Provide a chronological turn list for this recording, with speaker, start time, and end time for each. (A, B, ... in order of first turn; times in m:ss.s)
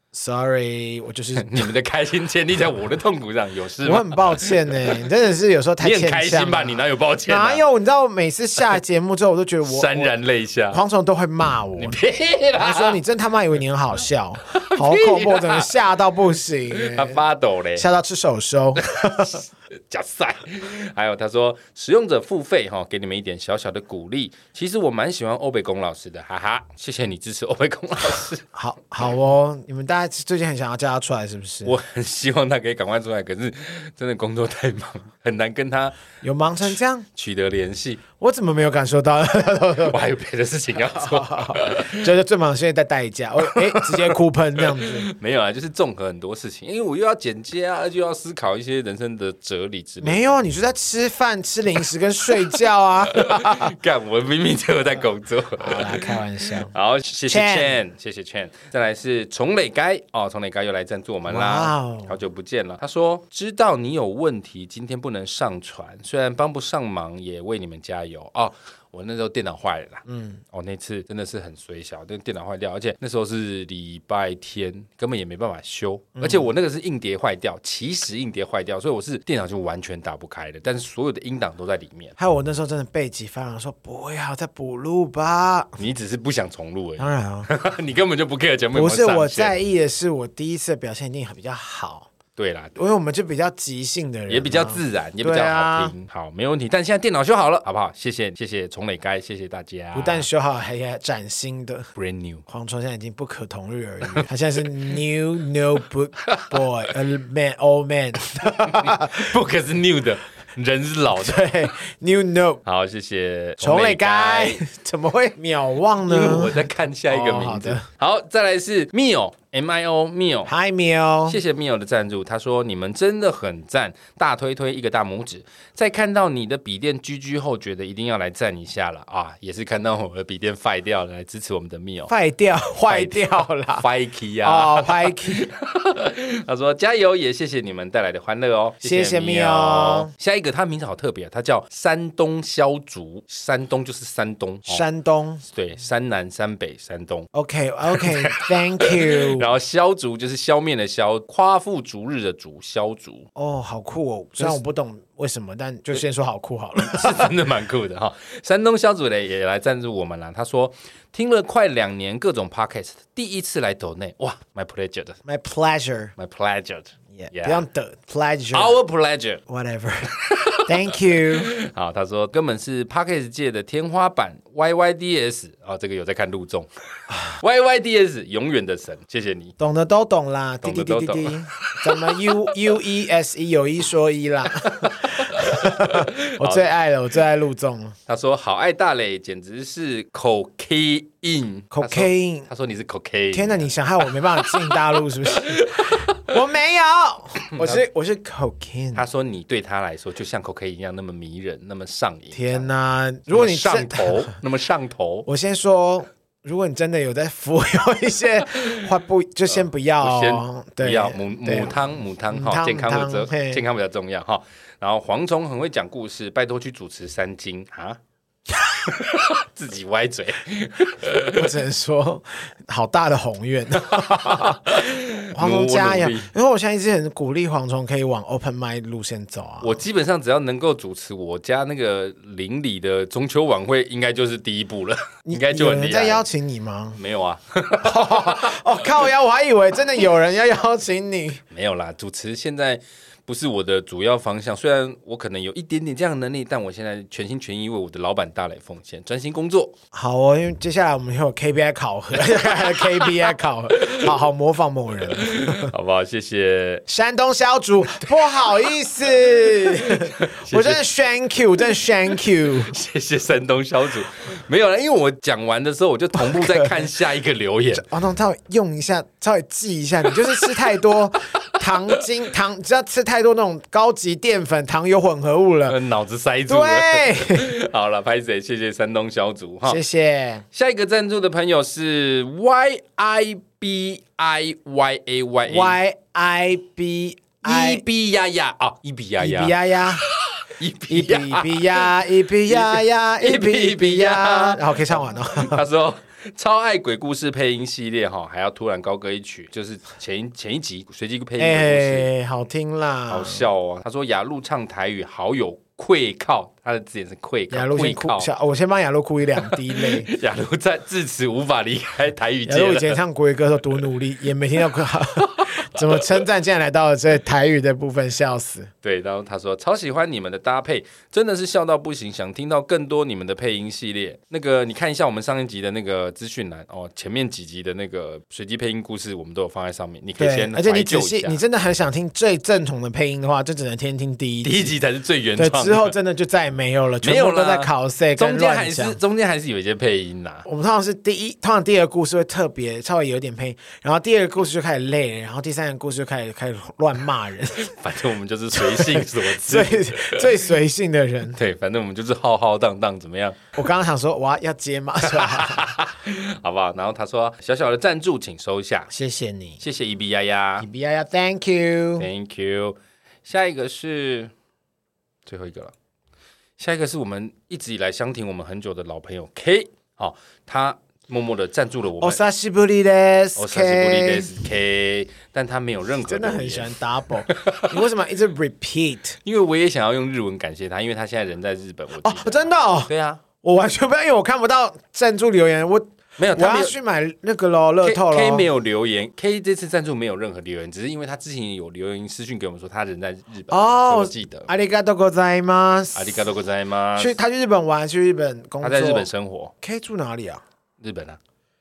0:00.1-0:01.7 A
0:01.4-0:05.0 B
0:03.8-0:10.1 A
0:05.8-0:07.6 B
0:09.6-0:10.8 B
0:10.7-0:12.0 A
0:11.8-0:13.0 B
0:12.6-0:17.2 A
0:14.5-0:15.7 B
0:16.7-0:17.9 B
0:17.8-0:19.4 A
0:18.8-0:28.4 B
0:28.5-0:31.7 A
0:31.6-0:36.0 B
0:36.2-0:37.1 A
0:37.1-0:38.0 B
0:38.2-0:40.1 A
0:39.9-0:42.1 B
0:40.8-0:45.1 A
0:43.4-0:44.1 B
0:44.6-0:50.4 B
0:50.0-0:53.7 A
0:53.1-1:22.1 B
0:55.6-0:56.7 A
0:57.3-0:57.8 A
1:01.3-1:02.2 A
1:10.1-1:10.4 A
1:16.2-1:16.5 A
1:22.2-1:25.8 A
1:25.8-1:29.5 B
1:27.0-1:27.5 A
1:28.7-1:32.1 A
1:32.4-1:32.7 B
1:32.8-1:35.9 A
1:34.3-1:40.3 B
1:39.9-1:41.9 A
1:42.0-1:42.4 B
1:42.5-1:49.3 A
1:46.2-1:46.6 B
1:48.3-1:51.5 B
1:51.1-1:52.6 A
1:52.6-1:54.6 B
1:53.6-1:57.8 A
1:56.0-2:00.5 B
2:00.5-2:01.4 A
2:01.2-2:12.1 B
2:12.1-2:13.9 A
2:12.9-2:24.8 B
2:14.4-2:15.5 A
2:18.8-2:20.1 A
2:24.7-2:25.4 A
2:25.5-2:27.3 B
2:27.3-2:29.5 A
2:27.9-2:33.3 B
2:33.4-2:37.4 A
2:36.8-2:45.2 B
2:45.2-2:46.1 A
2:46.2-2:47.6 B
2:47.1-2:48.8 A
2:48.5-2:49.4 B
2:49.5-2:50.1 A
2:50.1-2:56.7 B
2:50.6-2:51.5 A
2:57.1-2:57.4 A
2:57.3-2:59.5 B
2:59.6-3:08.0 A
3:00.6-3:02.5 B
3:04.6-3:06.7 B
3:08.1-3:14.7 B
3:11.7-3:12.5 A
3:13.3-3:19.0 A
3:15.3-3:16.2 B
3:17.4-3:17.8 B
3:18.9-3:22.6 B
3:22.3-3:24.3 A
3:23.3-3:25.3 B
3:25.3-3:33.6 A
3:30.0-3:38.0 B
3:38.7-3:41.5 B
3:41.1-3:44.8 A
3:43.9-3:46.3 B
3:45.4-3:49.8 A
3:49.6-3:56.2 B
3:55.3-3:57.0 A
3:57.0-3:58.6 B
3:57.8-4:01.4 A
4:01.5-4:09.7 B
4:09.9-4:15.7 A
4:12.8-4:13.1 B
4:13.7-4:14.1 B
4:15.1-4:16.9 B
4:16.9-4:22.7 A
4:18.0-4:18.7 B
4:19.2-4:20.8 B
4:22.6-4:27.8 B
4:26.2-4:26.9 A
4:27.7-4:35.8 A
4:30.3-4:30.6 B
4:31.5-4:32.0 B
4:35.7-4:39.8 B
4:36.5-4:37.6 A
4:39.6-4:40.4 A
4:40.5-4:45.8 B
4:45.5-4:47.8 A
4:47.4-5:02.1 B
4:49.2-4:50.1 A
4:50.9-4:55.6 A
5:01.4-5:03.5 A
5:03.1-5:08.3 B
5:07.5-5:10.1 A
5:09.4-5:13.0 B
5:12.5-5:18.7 A
5:15.2-5:16.2 B
5:18.8-5:31.4 B
5:30.2-5:34.7 A
5:34.4-5:35.9 B
5:35.4-5:39.0 A
5:37.0-5:40.4 B
5:40.4-5:47.7 A
5:47.6-5:50.3 B
5:48.5-5:51.4 A
5:51.4-5:53.4 B
5:53.5-5:55.7 A
5:55.0-5:58.9 B
5:58.9-5:59.6 A
5:59.6-6:00.7 B
6:00.6-6:02.1 A
6:02.0-6:04.3 B
6:05.2-6:05.7 B
6:06.6-6:12.2 B
6:12.0-6:14.4 A
6:13.4-6:16.7 B
6:16.0-6:19.2 A
6:17.3-6:17.8 B
6:19.2-6:23.2 B
6:22.0-6:22.9 A
6:23.4-6:28.5 A
6:26.2-6:26.7 B
6:27.8-6:34.5 B
6:33.5-6:36.2 A
6:35.9-6:37.2 B
6:37.0-6:39.1 A
6:38.6-6:39.5 B
6:39.6-6:40.4 A
6:40.8-6:41.2 B